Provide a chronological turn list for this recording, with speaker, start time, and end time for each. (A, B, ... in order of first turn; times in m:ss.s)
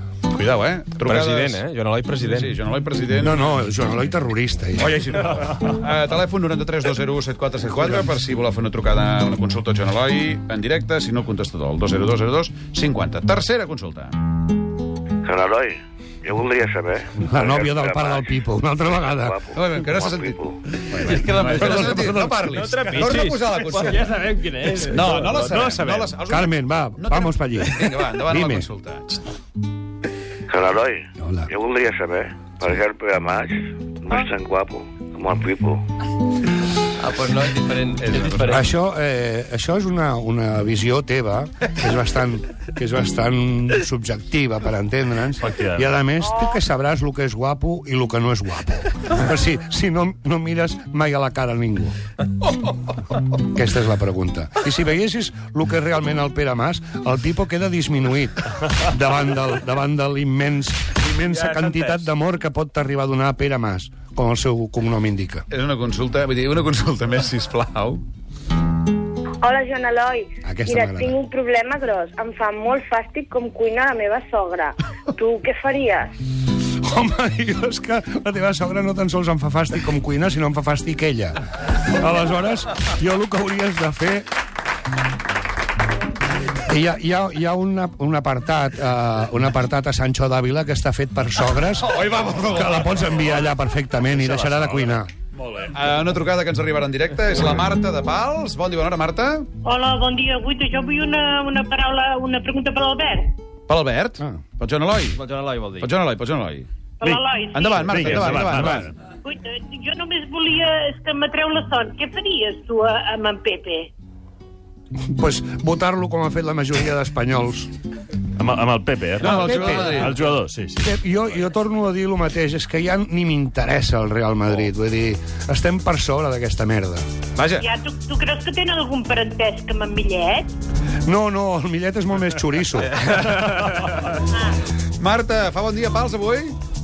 0:00.3-0:03.4 A
0:01.0-0:02.5 B
0:03.2-0:05.2 C
0:05.2-0:14.2 A
0:15.2-0:18.3 D
0:17.2-0:19.4 C
0:19.1-0:20.6 D
0:19.5-0:29.2 A
0:21.6-0:22.3 C
0:22.5-0:26.1 B
0:26.3-0:28.7 C
0:30.5-0:35.8 D
0:31.2-0:31.5 C
0:37.0-0:38.4 B
0:37.9-0:38.6 A
0:38.4-0:52.0 C
0:45.4-0:45.9 E
0:53.2-1:05.5 C
1:05.5-1:08.0 A
1:09.4-1:16.1 F
1:10.4-1:11.2 C
1:16.8-1:21.3 C
1:21.9-1:24.3 C
1:26.7-1:35.1 C
1:31.9-1:32.6 A
1:34.1-1:34.9 E
1:35.7-1:39.5 A
1:39.6-1:43.3 G
1:43.7-1:45.2 A
1:45.2-1:45.8 B
1:45.8-1:46.7 A
1:47.0-1:48.0 G
1:47.5-1:48.9 A
1:47.8-1:48.9 E
1:49.2-1:53.9 G
1:55.1-1:57.7 C
1:58.4-2:00.9 E
1:59.2-2:00.2 A
1:59.2-2:00.1 C
2:00.8-2:07.0 C
2:07.4-2:07.6 A
2:07.6-2:10.5 G
2:11.1-2:13.6 C
2:14.2-2:14.6 G
2:15.0-2:16.6 A